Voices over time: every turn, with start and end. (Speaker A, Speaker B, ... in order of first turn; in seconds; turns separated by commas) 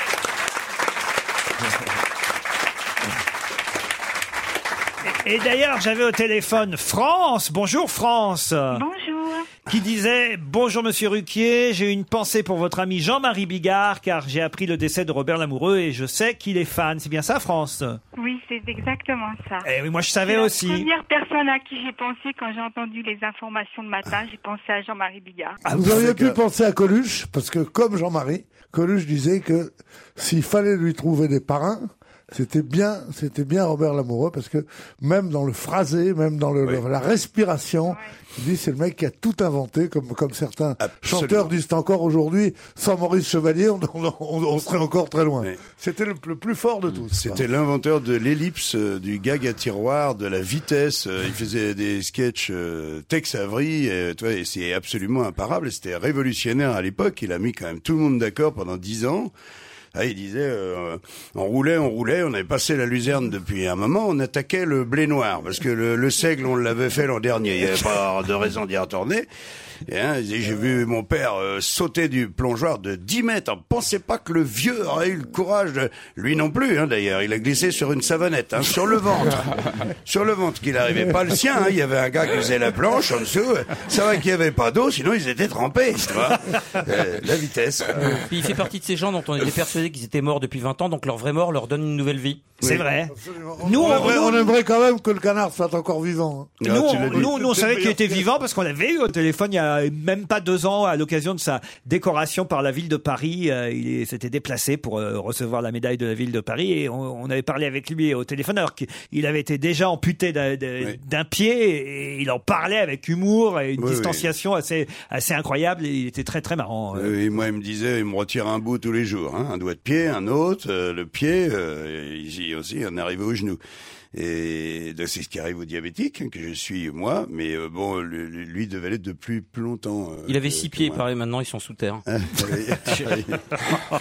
Speaker A: 5.1-8.8, Speaker B: 8.7-9.5, Speaker A: 9.7-18.0, Speaker B: 18.2-19.6, Speaker A: 19.6-20.9, Speaker B: 20.2-25.6, Speaker C: 25.7-47.4, Speaker D: 25.7-26.4, Speaker D: 40.8-41.6, Speaker D: 47.1-59.3, Speaker D: 60.0-69.3, Speaker D: 69.9-88.3, Speaker E: 88.1-92.5, Speaker A: 92.6-94.5, Speaker C: 93.1-98.2, Speaker D: 96.6-97.4, Speaker A: 96.6-117.2, Speaker D: 113.8-114.3, Speaker D: 117.0-123.6, Speaker D: 124.1-131.0, Speaker E: 130.3-132.0, Speaker D: 132.1-133.8